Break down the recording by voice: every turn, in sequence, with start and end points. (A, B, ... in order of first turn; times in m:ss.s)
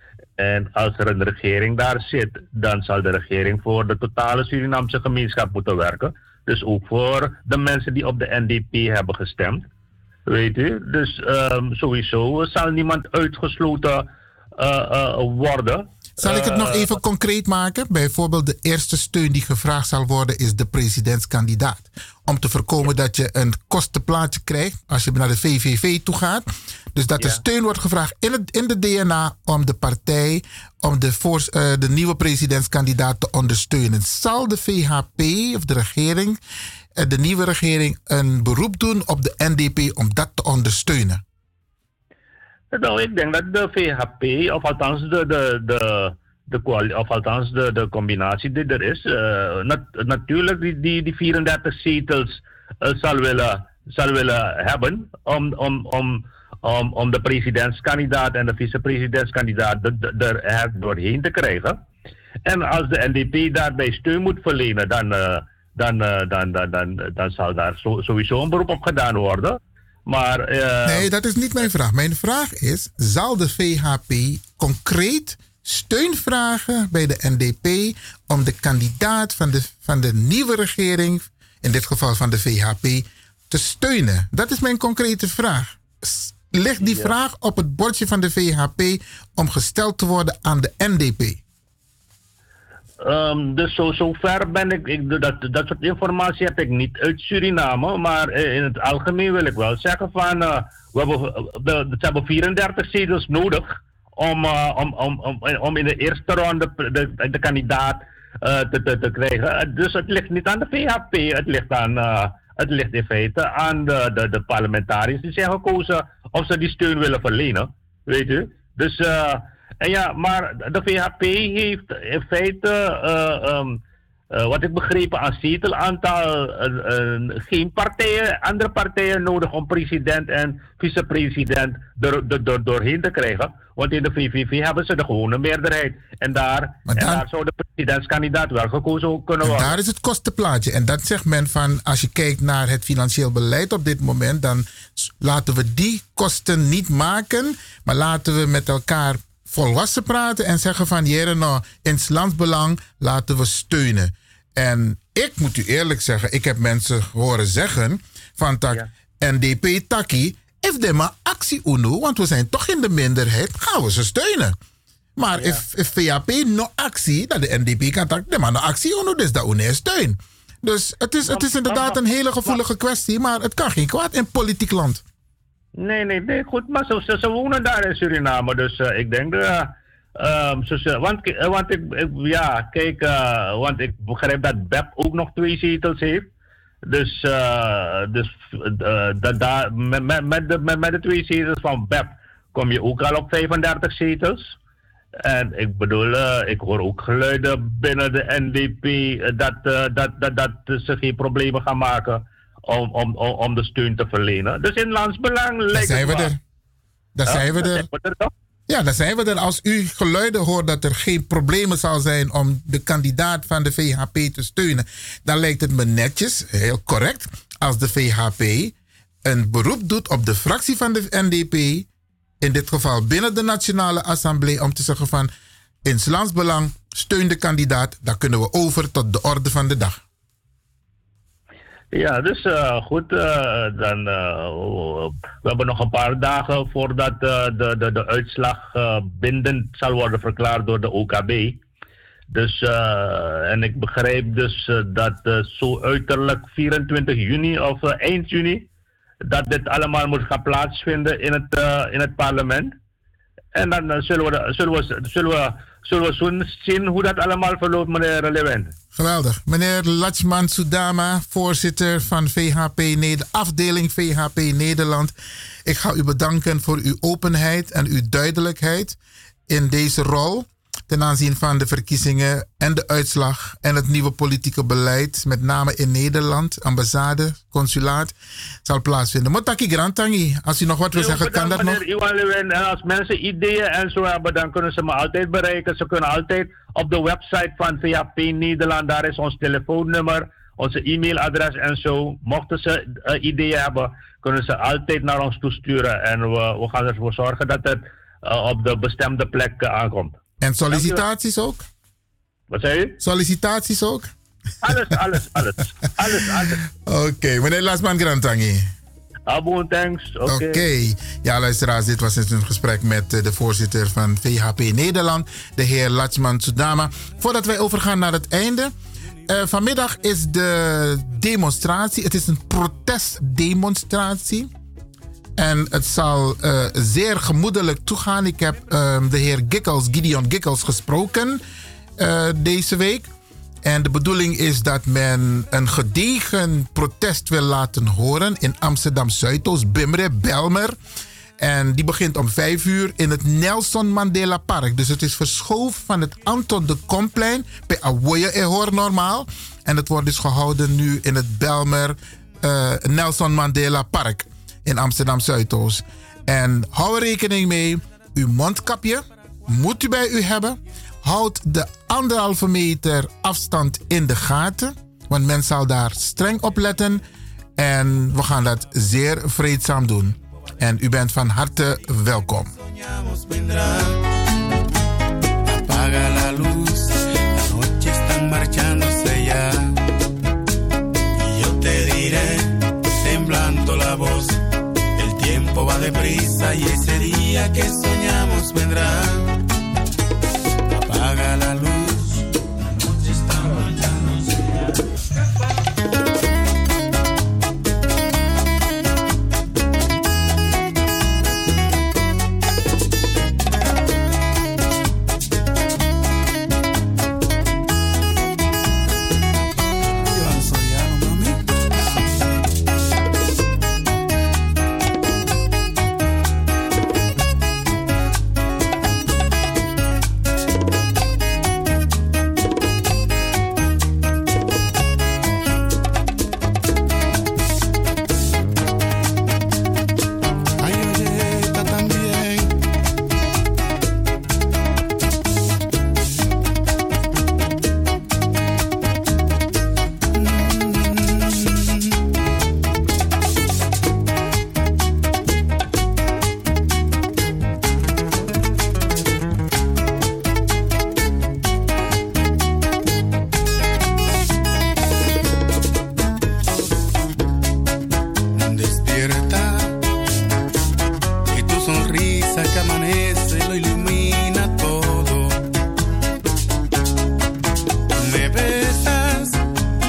0:00.4-0:09.6 A
0:10.3-0:16.9 A
0:16.2-0:36.4 B
0:37.0-0:41.2 B
0:42.7-1:01.8 A
1:02.4-1:11.1 A
1:10.8-1:31.4 B
1:26.8-1:27.1 A
1:33.0-2:03.8 A
2:04.3-2:19.7 A
2:16.8-2:17.2 B
2:19.4-2:44.6 B
2:45.2-2:55.0 B
2:45.3-2:45.6 A
2:51.3-2:52.6 A
2:55.8-3:06.2 A
3:06.8-3:14.5 A
3:15.2-3:26.3 A
3:25.7-3:26.4 B
3:27.1-3:27.8 B
3:27.3-3:28.3 A
3:28.7-3:41.9 B
3:42.4-3:45.3 B
3:45.8-3:50.0 B
3:51.9-4:01.6 A
4:02.3-4:08.6 A
4:09.2-4:12.7 A
4:13.5-4:18.7 A
4:18.9-4:29.0 B
4:29.5-4:41.8 B
4:40.9-5:00.2 A
5:00.4-5:01.6 B
5:00.7-5:01.0 A
5:02.5-5:03.0 A
5:03.0-5:04.1 B
5:04.6-5:06.6 A
5:06.7-5:08.7 B
5:09.3-5:10.6 A
5:10.2-5:18.7 B
5:19.3-5:24.5 B
5:25.4-5:31.4 B
5:32.0-5:33.1 B
5:33.6-5:40.8 B
5:41.4-6:07.0 B
6:07.6-6:12.5 B
6:12.6-6:14.0 C
6:15.4-6:19.8 C
6:21.1-6:24.4 C
6:24.9-6:29.3 C
6:30.8-6:32.3 C
6:33.0-6:33.9 C
7:10.6-7:12.5 C
7:20.1-7:21.9 C
7:38.4-7:39.7 C
7:41.3-7:45.4 C
7:48.0-7:49.4 C